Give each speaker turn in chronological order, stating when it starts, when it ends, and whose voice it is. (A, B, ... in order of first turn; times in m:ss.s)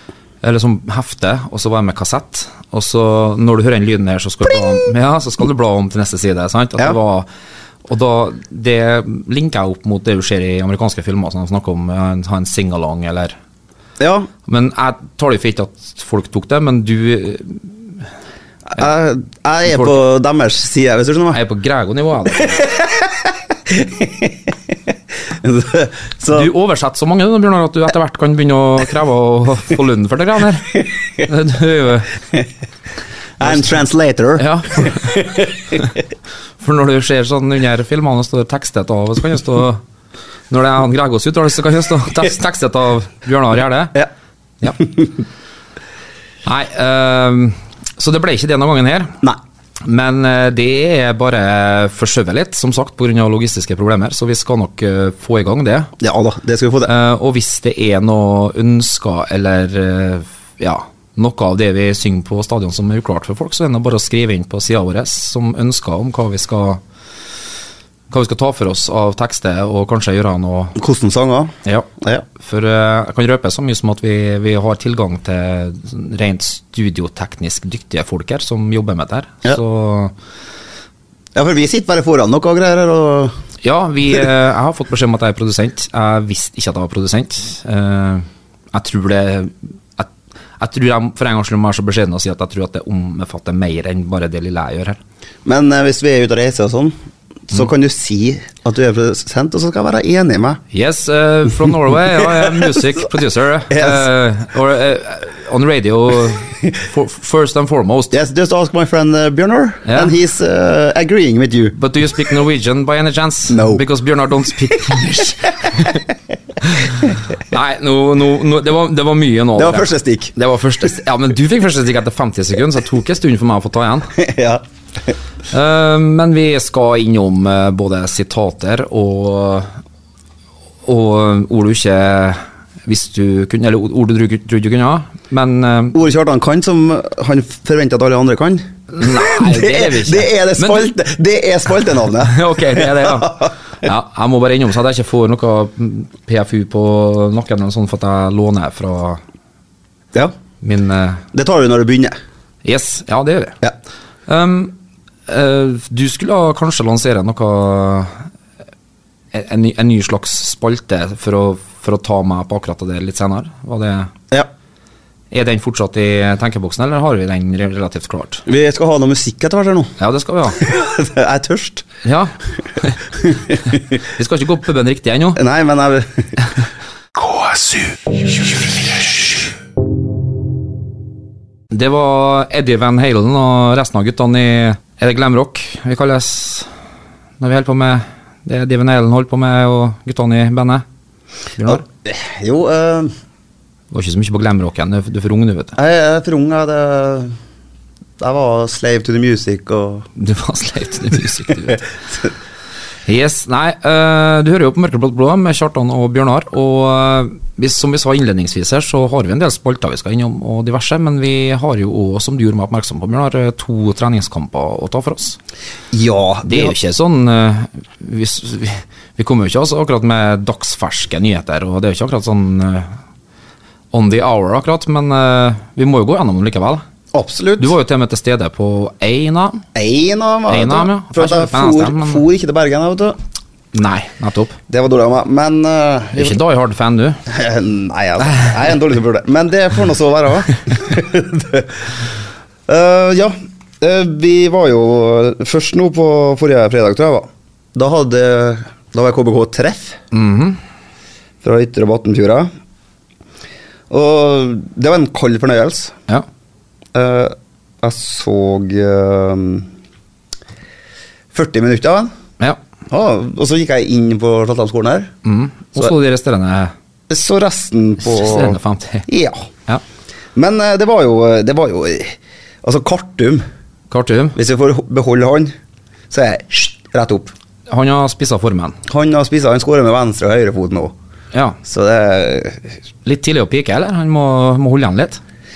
0:00.4-0:07.3 A
0:07.8-0:13.4 A
0:14.0-0:14.3 B
0:14.5-0:17.9 A
0:18.7-0:21.4 B
0:19.7-0:20.0 A
0:21.3-0:22.6 A
0:22.5-0:24.6 B
0:25.4-0:26.5 B
0:26.3-0:32.1 A
0:33.4-0:35.8 B
0:33.4-0:33.8 A
0:34.4-0:35.9 A
0:36.6-0:39.8 A
0:40.5-0:44.0 A
0:44.8-0:45.1 B
0:46.4-0:49.2 A
0:49.8-0:55.9 A
0:56.0-0:56.9 B
0:56.9-1:06.8 A
1:08.1-1:10.8 A
1:10.8-1:12.2 B
1:11.6-1:20.2 A
1:21.4-1:23.3 B
1:23.6-1:35.0 A
1:35.4-1:37.0 B
1:37.5-1:40.6 B
1:40.7-1:48.1 A
1:42.2-1:42.5 B
1:43.7-1:44.1 B
1:48.1-1:51.8 B
1:49.8-1:50.1 A
1:51.8-1:56.0 A
1:53.5-1:53.8 B
1:55.7-1:56.0 B
1:56.6-2:04.1 A
1:59.6-2:00.3 B
2:04.2-2:04.6 B
2:05.5-2:09.8 A
2:10.8-2:16.0 A
2:15.9-2:23.5 B
2:18.9-2:20.9 A
2:22.2-2:29.2 A
2:30.6-2:31.2 A
2:31.3-2:32.2 B
2:32.6-2:33.6 A
2:34.3-2:34.8 A
2:35.3-2:38.3 A
2:39.3-2:44.1 A
2:45.3-2:48.4 A
2:48.5-2:49.9 B
2:50.0-2:50.6 A
2:50.6-2:51.9 B
2:52.0-2:53.1 A
2:53.3-2:53.6 B
2:53.6-2:55.4 A
2:55.4-2:56.5 B
2:57.2-2:57.8 B
3:01.7-3:06.7 A
3:07.4-3:10.8 A
3:11.6-3:11.8 A
3:11.7-3:13.1 B
3:13.9-3:15.8 A
3:15.8-3:17.4 B
3:18.2-3:20.1 B
3:20.2-3:21.8 A
3:23.1-3:35.4 A
3:35.9-3:36.8 B
3:36.4-3:43.0 A
3:43.9-3:46.8 A
3:47.1-3:47.8 B
3:47.6-3:49.6 A
3:49.8-3:53.2 B
3:50.5-3:52.2 A
3:53.7-3:54.6 A
3:54.7-3:56.4 B
3:56.1-3:57.2 A
3:57.3-4:02.0 B
3:58.3-3:58.6 A
4:02.7-4:10.0 B
4:10.1-4:10.6 A
4:11.4-4:12.5 B
4:13.9-4:16.0 B
4:16.9-4:19.7 B
4:21.3-4:22.1 B
4:22.9-4:25.1 B
4:25.2-4:26.7 A
4:27.1-4:29.5 B
4:28.0-4:29.1 A
4:30.4-4:33.4 B
4:33.9-4:34.4 A
4:34.4-4:35.5 B
4:36.1-4:37.3 B
4:37.7-4:38.8 A
4:38.9-4:40.9 B
4:41.3-4:41.6 A
4:41.6-4:42.7 B
4:43.0-4:45.2 A